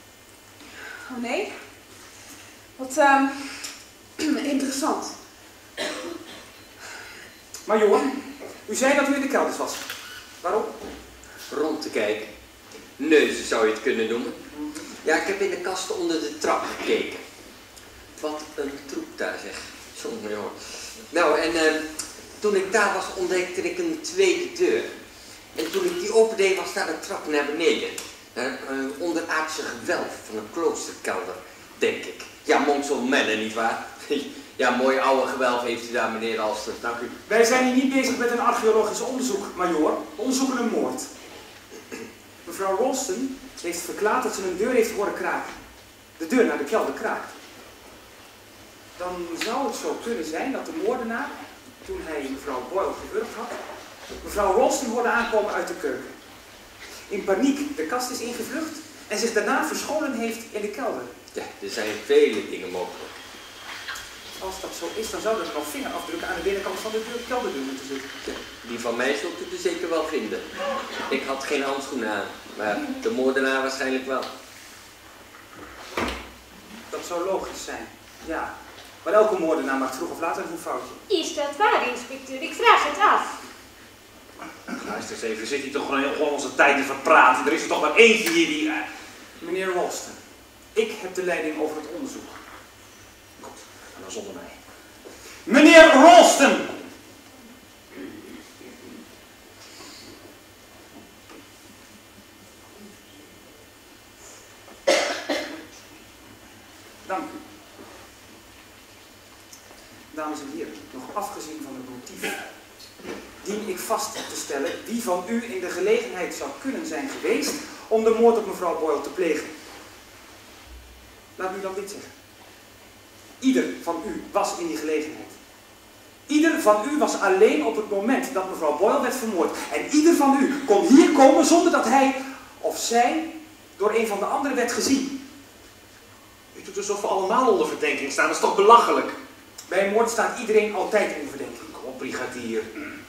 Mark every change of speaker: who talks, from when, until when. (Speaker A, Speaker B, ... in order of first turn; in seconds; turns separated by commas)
Speaker A: 1.0-1.5, Speaker A: 2.8-5.2, Speaker B: 7.7-9.9, Speaker B: 10.4-10.7, Speaker C: 11.5-12.3, Speaker C: 13.0-14.4, Speaker B: 14.5-14.8, Speaker C: 15.0-17.2, Speaker C: 18.2-24.9, Speaker C: 25.5-37.1, Speaker B: 37.3-41.1, Speaker B: 42.5-45.6, Speaker B: 46.2-47.4, Speaker B: 49.0-53.6, Speaker B: 54.2-56.1, Speaker B: 57.1-61.1, Speaker C: 61.3-63.1, Speaker B: 64.4-68.3, Speaker C: 68.6-70.5, Speaker C: 71.1-74.3, Speaker B: 76.9-81.0, Speaker D: 81.1-83.3, Speaker E: 84.7-88.9, Speaker B: 89.4-90.2, Speaker B: 90.7-92.4, Speaker E: 93.4-94.6, Speaker B: 95.5-96.8, Speaker B: 107.0-107.4, Speaker B: 110.1-112.4, Speaker B: 113.4-119.5, Speaker B: 121.4-122.1, Speaker B: 123.4-125.4, Speaker B: 126.3-135.2, Speaker E: 136.5-139.2, Speaker B: 139.7-141.7, Speaker E: 141.7-142.7